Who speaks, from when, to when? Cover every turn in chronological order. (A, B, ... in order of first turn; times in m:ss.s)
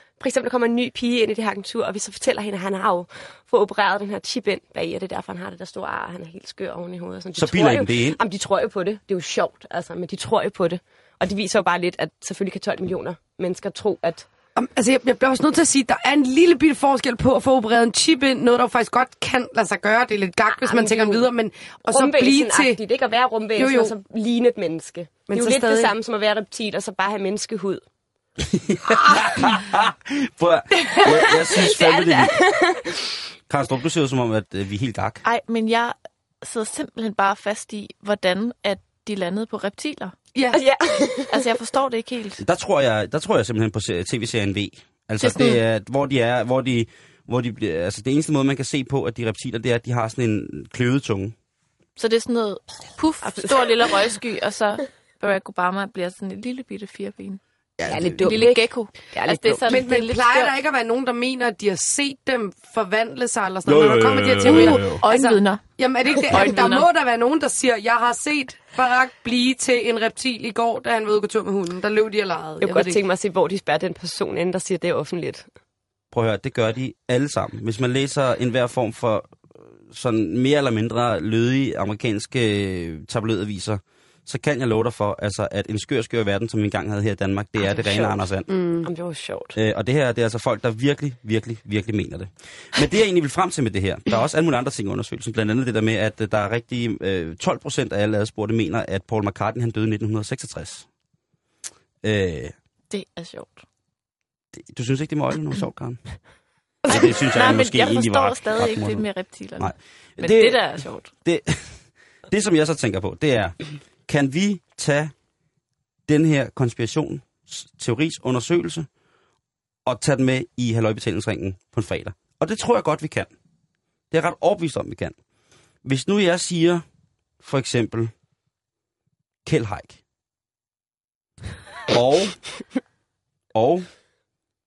0:00.2-0:14.3 A
0:07.4-0:08.2 B
0:14.6-0:22.8 C
0:20.6-0:21.3 A
0:21.9-0:27.8 A
0:23.6-0:23.9 C
0:25.3-0:25.9 C
0:28.4-0:32.4 B
0:31.4-0:33.1 A
0:33.5-0:35.2 B
0:35.2-0:40.2 D
0:40.4-0:40.6 C
0:40.5-0:41.4 A
0:41.3-0:42.4 D
0:42.4-0:51.3 B
0:45.2-0:45.6 D
0:52.0-0:57.4 D
0:57.8-0:58.3 B
0:57.9-0:59.8 A
0:58.2-1:00.6 D
0:59.7-1:13.0 C
1:03.7-1:05.0 B
1:04.4-1:05.7 D
1:06.3-1:06.9 D
1:12.6-1:15.5 A
1:16.1-1:28.5 B
1:27.6-1:28.3 A
1:28.5-1:28.9 C
1:28.8-1:29.6 A
1:29.6-1:40.9 B
1:42.0-1:42.5 B
1:42.9-1:43.6 D
1:44.6-1:46.0 B
1:46.9-1:51.1 D
1:46.9-1:49.1 B
1:49.6-1:55.1 B
1:56.1-1:58.9 B
1:59.9-2:03.3 B
2:04.1-2:05.2 B
2:05.8-2:06.8 B
2:07.4-2:08.1 B
2:09.4-2:10.0 B
2:11.9-2:12.4 B
2:13.5-2:13.9 B